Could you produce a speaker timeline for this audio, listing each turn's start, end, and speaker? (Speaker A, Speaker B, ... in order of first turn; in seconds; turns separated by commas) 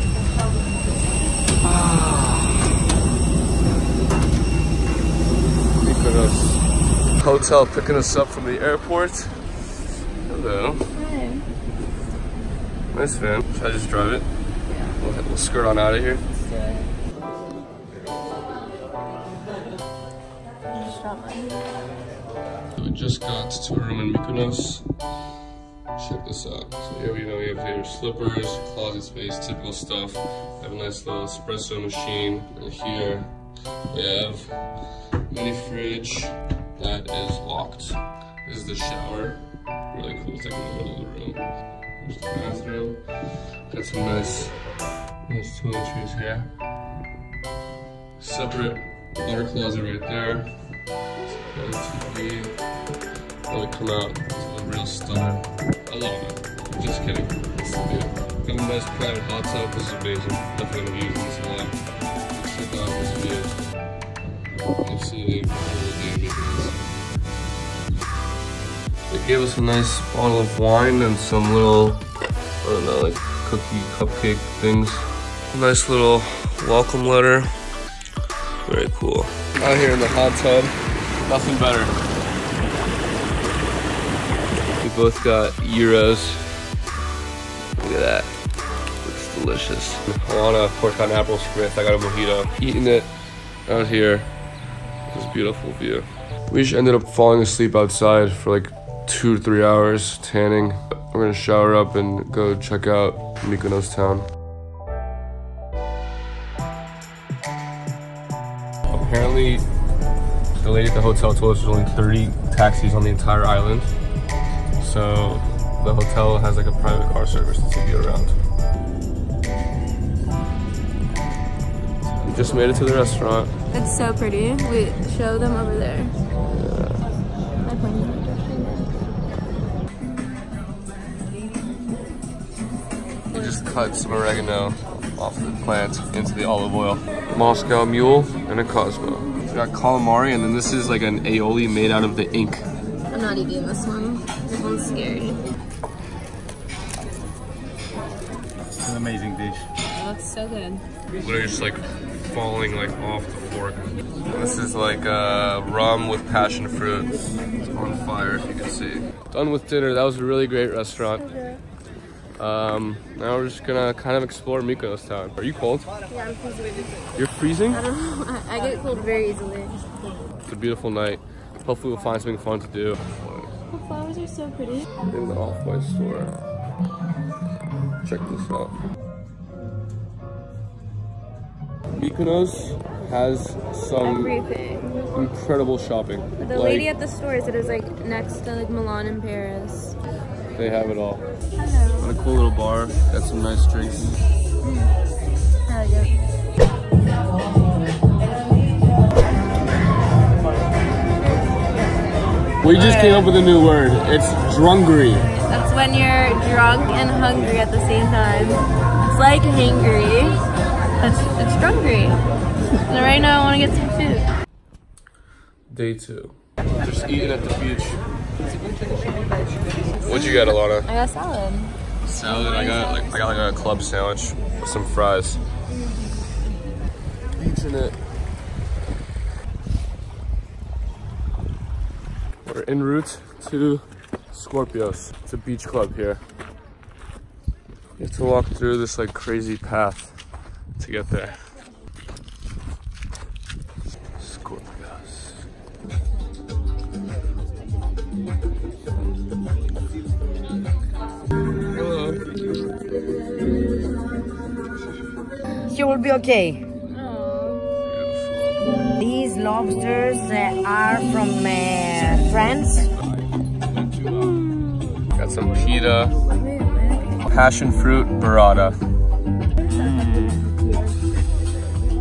Speaker A: 1.6-2.8, Speaker A: 5.8-9.6, Speaker A: 10.2-10.9, Speaker B: 10.9-11.4, Speaker A: 12.9-14.3, Speaker A: 15.0-16.2, Speaker B: 16.4-16.9, Speaker B: 20.7-21.7, Speaker A: 22.7-24.9, Speaker A: 25.9-33.3, Speaker A: 33.9-44.6, Speaker A: 45.2-46.5, Speaker A: 48.2-50.5, Speaker A: 51.2-52.6, Speaker A: 53.5-61.8, Speaker A: 62.3-63.5, Speaker A: 64.8-66.9, Speaker A: 69.1-72.1, Speaker A: 72.6-77.6, Speaker A: 78.6-82.0, Speaker A: 84.8-86.6, Speaker A: 87.8-88.3, Speaker A: 89.0-93.1, Speaker A: 93.7-94.3, Speaker A: 95.1-104.3, Speaker A: 108.9-109.6, Speaker A: 110.6-113.9, Speaker A: 114.8-118.4, Speaker A: 122.0-123.5, Speaker B: 122.4-123.0, Speaker B: 123.7-126.2, Speaker A: 126.4-127.1, Speaker B: 127.6-129.0, Speaker A: 133.3-142.7, Speaker B: 133.3-134.4, Speaker B: 143.1-145.4, Speaker A: 148.9-149.6, Speaker B: 149.9-150.8, Speaker A: 151.2-161.2, Speaker B: 161.1-161.6, Speaker A: 162.4-165.9, Speaker B: 166.1-167.0, Speaker A: 167.1-167.8, Speaker B: 167.7-170.0, Speaker A: 170.4-173.5, Speaker B: 173.7-174.9, Speaker A: 175.0-176.4, Speaker A: 178.0-178.8, Speaker A: 181.9-184.4, Speaker B: 184.0-185.1, Speaker A: 185.1-186.9, Speaker B: 186.4-190.0, Speaker A: 190.6-191.2, Speaker B: 191.6-192.1, Speaker A: 192.0-194.2, Speaker B: 194.6-194.9, Speaker B: 195.7-196.2, Speaker A: 202.6-205.3, Speaker B: 202.7-203.3, Speaker B: 205.3-210.4, Speaker B: 211.0-212.2, Speaker B: 212.9-214.3, Speaker A: 215.7-218.0, Speaker A: 220.0-220.9, Speaker B: 220.2-223.5, Speaker A: 222.0-225.4, Speaker A: 227.4-228.0, Speaker A: 232.4-236.2, Speaker A: 238.0-240.2, Speaker A: 240.8-241.5, Speaker A: 244.2-245.5, Speaker A: 251.7-252.2, Speaker C: 255.7-256.7, Speaker B: 256.9-257.6, Speaker A: 257.8-258.6, Speaker C: 259.0-262.9, Speaker A: 263.9-264.3, Speaker B: 264.0-264.9, Speaker A: 265.1-266.2, Speaker B: 266.3-267.2, Speaker A: 267.3-268.8, Speaker B: 269.6-271.0